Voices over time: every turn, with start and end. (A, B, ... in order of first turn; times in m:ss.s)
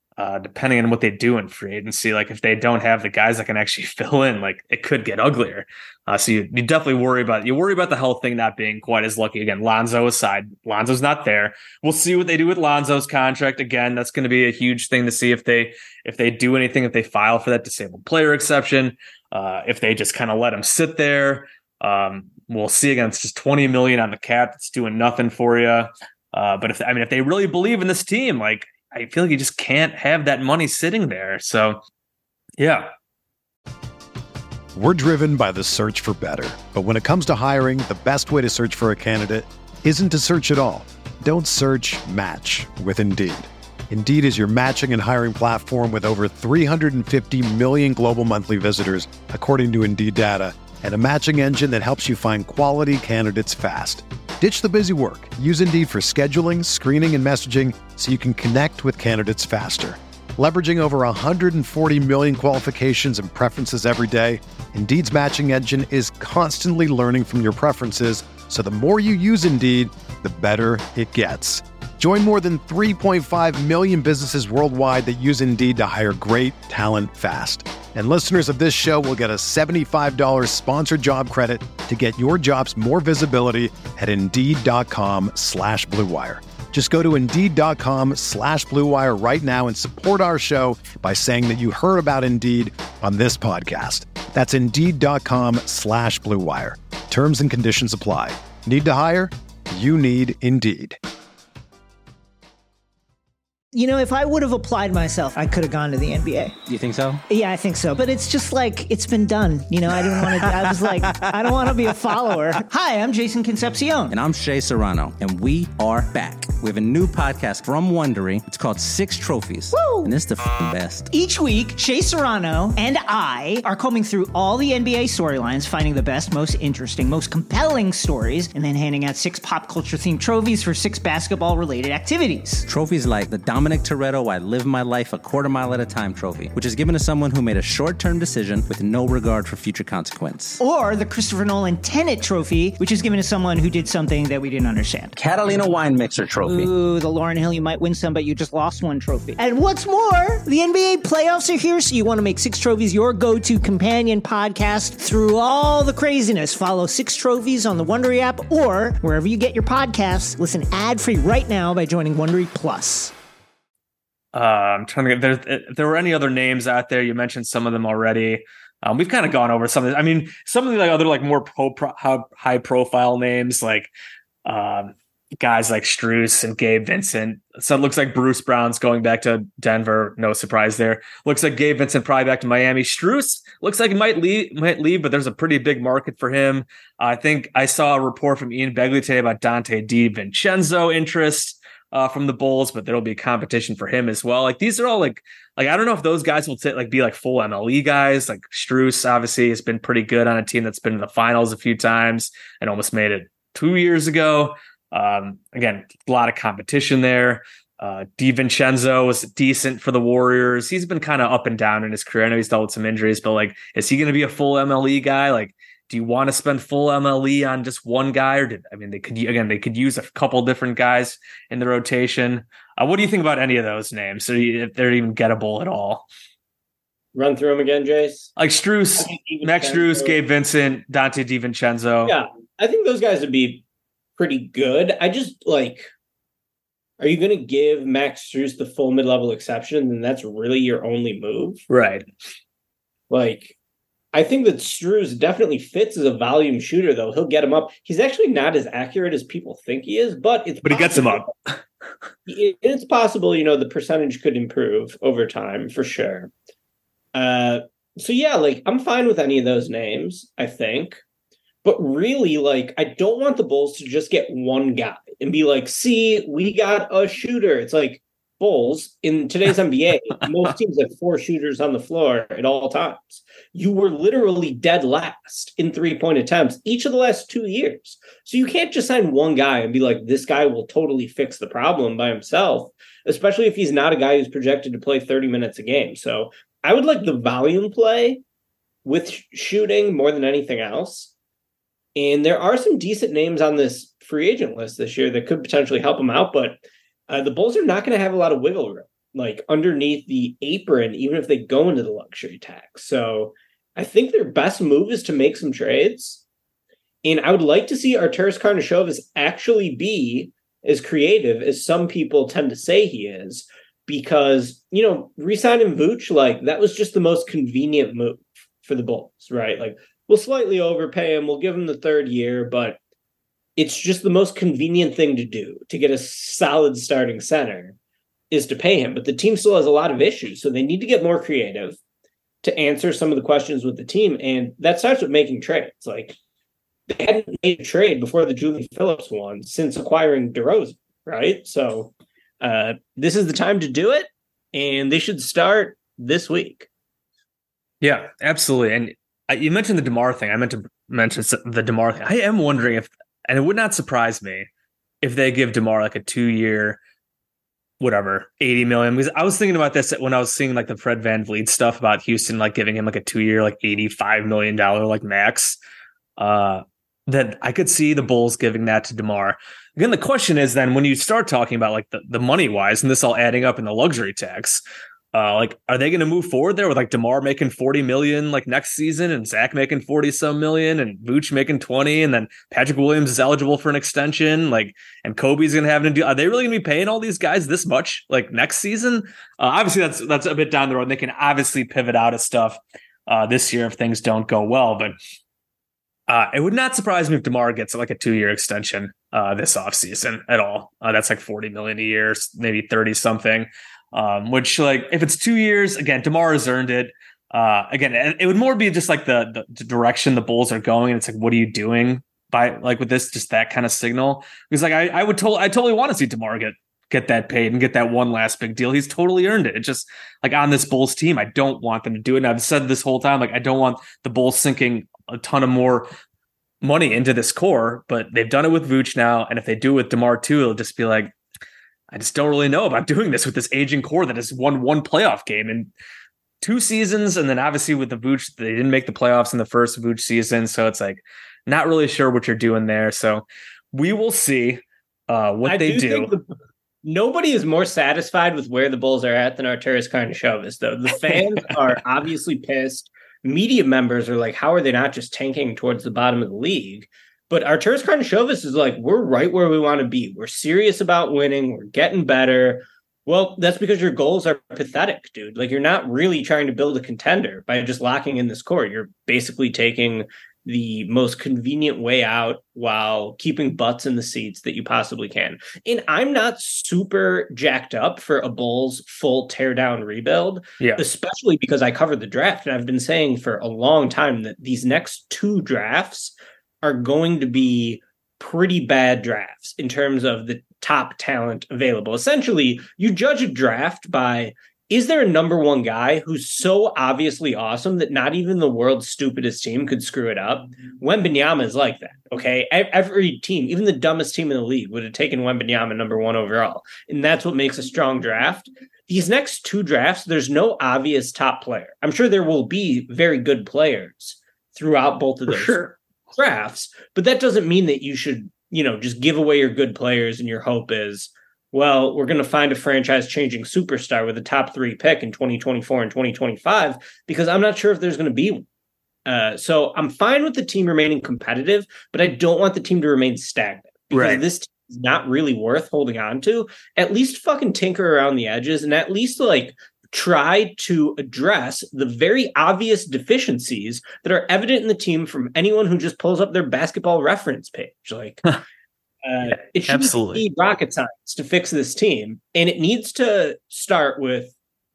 0:00.2-0:31.8 A
0:32.6-0:32.9 A
0:34.8-1:41.0 B
1:43.7-1:46.6 C
1:46.7-1:47.2 D
1:47.3-1:54.2 C
1:54.1-2:01.1 D
1:59.7-2:00.2 C
2:01.1-2:12.7 C
2:12.7-2:20.6 D
2:20.6-2:25.2 C
2:25.2-2:26.7 D
2:26.4-2:43.1 C
2:44.3-2:53.9 A
2:54.4-3:46.0 A
3:47.2-3:48.3 E
3:48.4-3:52.2 A
3:49.0-3:50.2 E
3:52.0-3:53.6 E
3:54.2-3:55.9 E
3:57.0-4:01.6 E
4:01.7-4:02.1 A
4:03.1-4:03.5 E
4:04.1-4:11.3 E
4:10.6-4:11.6 A
4:12.3-4:16.3 E
4:17.1-4:21.0 E
4:21.6-4:48.2 E
4:48.8-4:51.1 E
4:52.0-5:06.2 E
5:07.0-5:22.8 E
5:23.6-5:27.8 E
5:28.3-5:31.8 E
5:32.4-5:36.2 E
5:36.9-5:46.7 E
5:47.8-5:54.5 A
5:55.0-5:56.8 A
5:57.8-6:05.6 A
6:06.2-6:14.6 A
6:15.1-6:35.0 A
6:36.1-7:05.9 A
7:06.6-7:11.1 A
7:11.9-7:15.7 A
7:16.4-7:26.1 A
7:25.4-7:26.3 E
7:26.8-8:35.6 E
8:35.3-8:35.7 A
8:36.2-8:48.4 E
8:49.1-9:08.3 E
8:53.9-8:54.2 A
9:09.0-9:14.3 E
9:09.3-9:10.2 A